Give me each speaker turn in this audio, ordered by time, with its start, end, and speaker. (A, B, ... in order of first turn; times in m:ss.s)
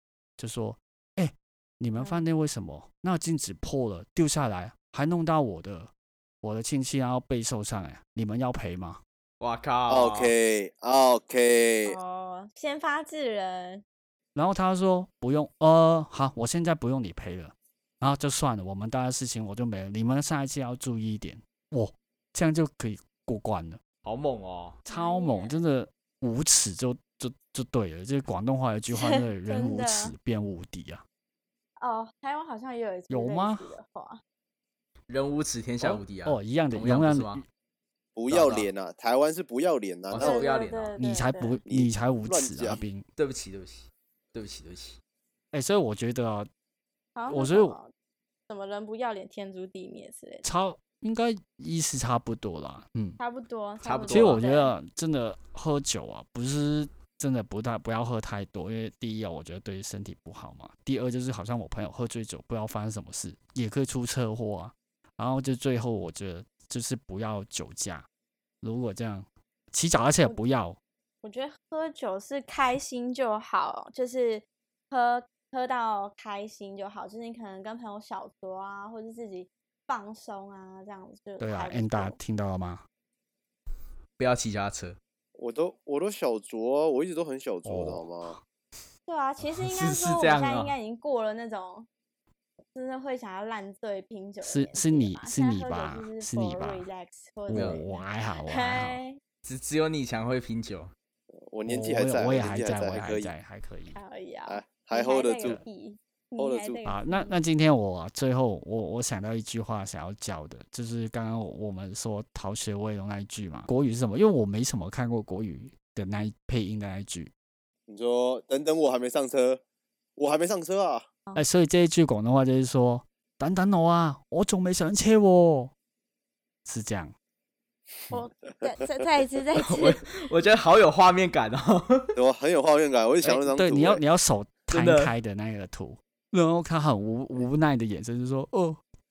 0:00.4-0:09.0 A
0:02.0-0:02.3 B
0:09.4-0:10.3 C
0:09.9-0:12.0 D
0:11.9-0:13.8 B
0:14.4-0:23.8 A
0:24.0-0:24.8 C
0:24.9-0:31.0 A
0:24.9-0:25.6 B
0:28.9-0:30.1 B
0:31.8-0:34.2 B
0:33.1-0:33.7 A
0:35.1-0:37.4 C
0:35.8-0:37.4 A
0:38.2-0:40.4 D
0:38.3-0:38.7 C
0:40.1-0:40.9 C
0:40.2-0:41.6 B
0:41.0-0:43.0 A
0:41.7-0:42.8 D
0:43.2-0:45.0 C
0:45.5-0:46.5 A
0:47.2-0:47.9 B
0:47.3-0:47.8 A
0:48.5-0:50.5 B
0:50.4-0:53.2 A
0:53.2-0:54.7 B
0:53.8-0:54.4 C
0:54.1-1:08.1 A
1:08.6-1:10.8 A
1:10.0-1:10.4 B
1:11.2-1:22.2 B
1:21.4-1:22.8 A
1:24.2-1:25.0 C
1:25.4-1:28.4 D
1:27.6-1:28.4 A
1:29.1-1:31.9 B
1:29.4-1:30.7 C
1:32.7-1:39.2 B
1:34.4-1:36.8 A
1:37.5-1:39.0 A
1:37.5-1:37.8 C
1:39.4-1:40.9 C
1:41.3-1:43.3 D
1:41.7-1:44.0 A
1:43.9-1:47.4 B
1:44.5-1:45.6 D
1:46.4-1:46.8 D
1:46.8-1:57.3 A
1:57.9-1:59.6 D
2:00.2-2:01.1 D
2:01.4-2:05.7 A
2:06.7-2:07.1 A
2:08.1-2:10.0 B
2:09.6-2:12.2 C
2:12.2-2:14.0 D
2:13.2-2:18.8 A
2:14.7-2:15.1 C